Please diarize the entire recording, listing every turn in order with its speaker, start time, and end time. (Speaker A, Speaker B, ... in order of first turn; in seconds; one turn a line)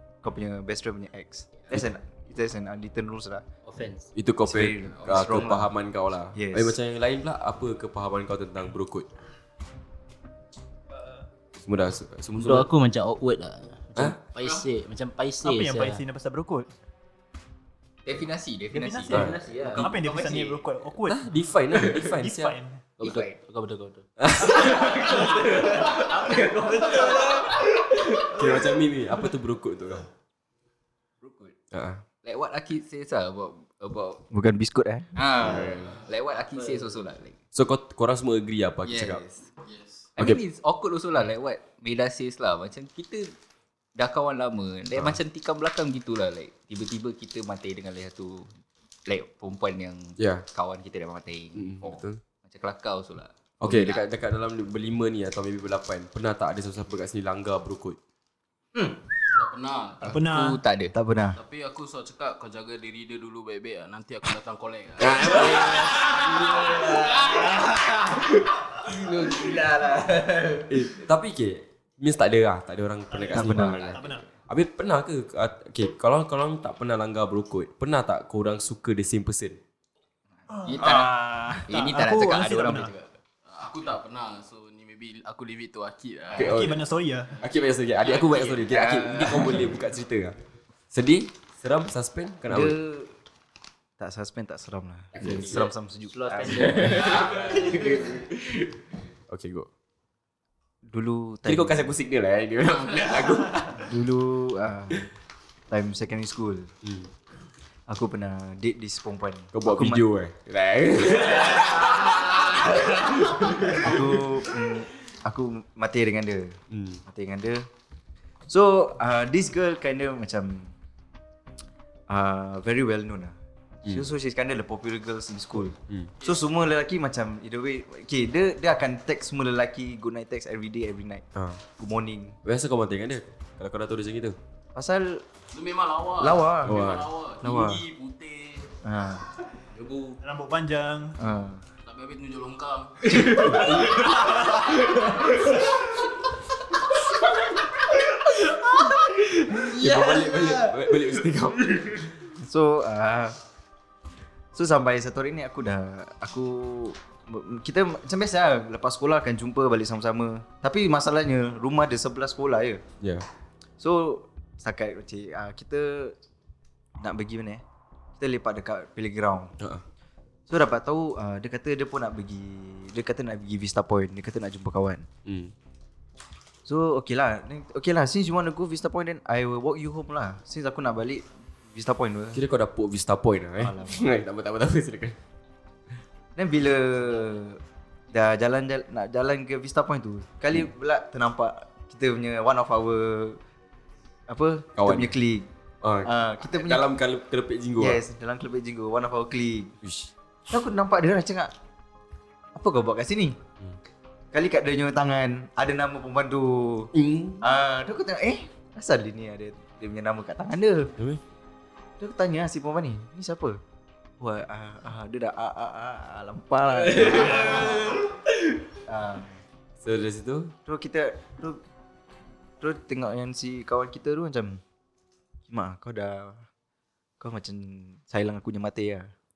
Speaker A: 0.2-3.5
Speaker B: 3.7-4.1
Speaker C: 4.2-9.1
Speaker A: 4.5-5.7
Speaker D: 5.0-5.5
Speaker A: 6.3-6.8
Speaker C: 11.6-12.7
Speaker B: 12.4-16.0
Speaker E: 15.4-16.7
Speaker D: 18.1-20.5
Speaker E: 18.7-19.3
Speaker B: 19.1-20.5
Speaker E: 19.8-22.9
Speaker C: 21.1-22.6
Speaker B: 23.0-27.4
Speaker D: 23.0-23.4
Speaker C: 24.2-25.3
Speaker D: 24.4-28.5
Speaker C: 28.2-30.1
Speaker D: 31.2-31.6
Speaker C: 31.7-32.0
Speaker D: 32.2-34.2
Speaker A: 34.3-35.1
Speaker D: 35.2-37.4
Speaker C: 35.4-36.0
Speaker C: 37.5-39.2
Speaker D: 38.9-39.5
Speaker F: 39.6-40.1
Speaker D: 40.2-43.3
Speaker D: 44.0-48.5
Speaker D: 49.1-54.1
Speaker C: 50.2-50.5
Speaker C: 51.6-52.2
Speaker C: 53.6-58.0
Speaker F: 59.3-60.2
Speaker E: 60.0-60.6
Speaker D: 60.0-60.9
Speaker A: 60.9-61.4
Speaker F: 61.4-67.5
Speaker C: 65.0-66.1
Speaker D: 66.1-70.7
Speaker F: 68.8-69.6
Speaker C: 70.7-79.6
Speaker E: 73.1-74.2
Speaker A: 73.3-74.0
Speaker E: 80.5-82.9
Speaker D: 80.5-83.1
Speaker F: 83.5-86.5
Speaker C: 86.3-86.8
Speaker E: 86.4-87.3
Speaker C: 87.4-90.3
Speaker F: 88.1-88.5
Speaker D: 88.6-89.7
Speaker C: 90.9-92.8
Speaker A: 92.5-93.1
Speaker A: 94.0-97.1
Speaker C: 95.2-95.6
Speaker D: 95.2-95.7
Speaker B: 96.1-97.8
Speaker D: 96.4-98.3
Speaker F: 97.0-97.7
Speaker C: 99.3-99.7
Speaker A: 100.8-101.9
Speaker C: 101.5-103.9
Speaker A: 103.8-105.1
Speaker A: 105.7-106.7
Speaker C: 106.8-107.1
Speaker A: 107.9-110.0
Speaker C: 109.5-114.0
Speaker F: 111.5-112.8
Speaker A: 113.6-117.7
Speaker C: 116.7-117.0
Speaker A: 118.5-120.7
Speaker A: 122.1-123.4
Speaker A: 123.9-131.3
Speaker C: 131.3-131.6
Speaker A: 131.8-132.4
Speaker C: 132.4-134.4
Speaker A: 134.8-135.2
Speaker F: 135.5-138.7
Speaker A: 136.2-137.8
Speaker C: 136.6-137.1
Speaker A: 138.8-139.2
Speaker E: 140.2-141.2
Speaker A: 141.2-141.6
Speaker F: 141.8-144.6
Speaker C: 143.2-144.2
Speaker C: 149.5-152.2
Speaker A: 152.3-153.4
Speaker A: 154.5-162.8
Speaker C: 163.0-163.3
Speaker A: 163.8-166.2
Speaker A: 167.0-167.6
Speaker A: 168.2-169.5
Speaker A: 170.5-175.1
Speaker C: 175.3-175.5
Speaker A: 176.7-182.4
Speaker C: 182.3-185.2
Speaker A: 183.6-184.1
Speaker A: 186.4-193.4
Speaker A: 194.3-195.5
Speaker C: 194.8-195.1
Speaker C: 195.8-198.0
Speaker A: 196.1-196.9
Speaker A: 197.8-199.8
Speaker C: 199.8-200.1
Speaker A: 200.5-201.5
Speaker A: 202.5-203.4
Speaker A: 204.3-210.9
Speaker C: 206.9-207.4
Speaker A: 212.0-213.6
Speaker A: 214.2-218.1
Speaker A: 218.8-219.4
Speaker C: 219.8-220.5
Speaker A: 220.7-221.6
Speaker A: 222.6-224.6
Speaker A: 225.5-226.4
Speaker A: 227.2-229.1